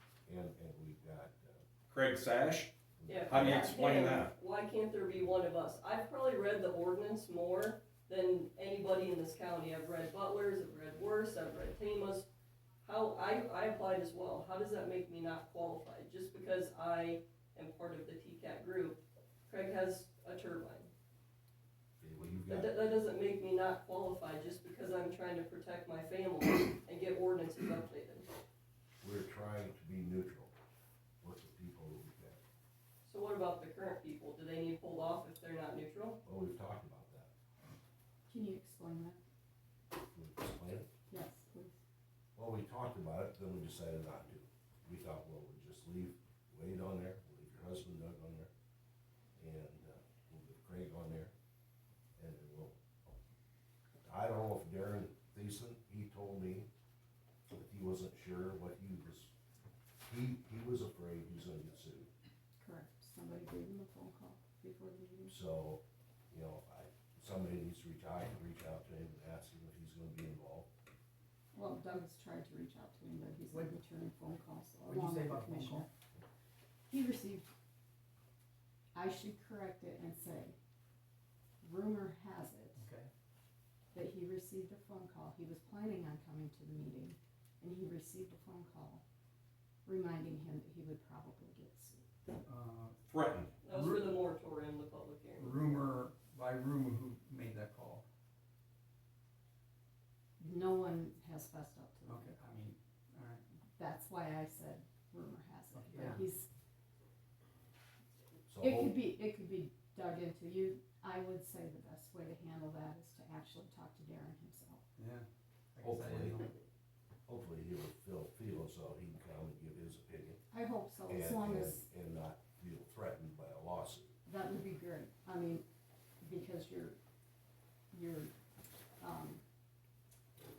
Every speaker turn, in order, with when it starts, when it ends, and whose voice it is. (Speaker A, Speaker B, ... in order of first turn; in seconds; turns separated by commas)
Speaker A: 0.2-1.6, Speaker B: 1.9-2.7, Speaker A: 3.0-3.6, Speaker C: 3.1-12.3, Speaker B: 3.3-4.3, Speaker C: 12.8-20.9, Speaker A: 22.0-22.7, Speaker C: 22.5-28.3, Speaker A: 29.0-30.5, Speaker A: 31.2-32.4, Speaker C: 33.0-36.2, Speaker A: 36.2-37.3, Speaker D: 38.3-39.2, Speaker A: 40.1-40.9, Speaker D: 41.1-41.8, Speaker A: 42.3-48.5, Speaker A: 49.4-51.3, Speaker A: 52.2-52.7, Speaker A: 54.0-56.7, Speaker A: 57.5-59.3, Speaker A: 60.0-62.1, Speaker D: 62.6-65.3, Speaker A: 65.3-70.7, Speaker D: 71.5-75.9, Speaker E: 74.8-75.9, Speaker D: 76.9-77.5, Speaker D: 78.9-80.5, Speaker D: 81.6-82.8, Speaker E: 82.8-83.1, Speaker D: 83.9-89.0, Speaker D: 89.8-92.0, Speaker E: 92.4-93.0, Speaker B: 93.1-93.5, Speaker C: 93.6-95.7, Speaker E: 93.7-94.2, Speaker E: 95.4-98.0, Speaker D: 100.4-102.7, Speaker E: 102.0-103.4, Speaker D: 103.8-106.5, Speaker E: 105.7-106.2, Speaker A: 108.5-109.1, Speaker D: 108.6-114.8, Speaker E: 115.0-116.5, Speaker A: 115.8-116.5, Speaker A: 117.3-120.4, Speaker D: 120.5-121.9, Speaker A: 121.0-124.1, Speaker D: 124.2-125.6, Speaker D: 126.2-127.0, Speaker D: 127.9-128.3, Speaker D: 129.0-129.4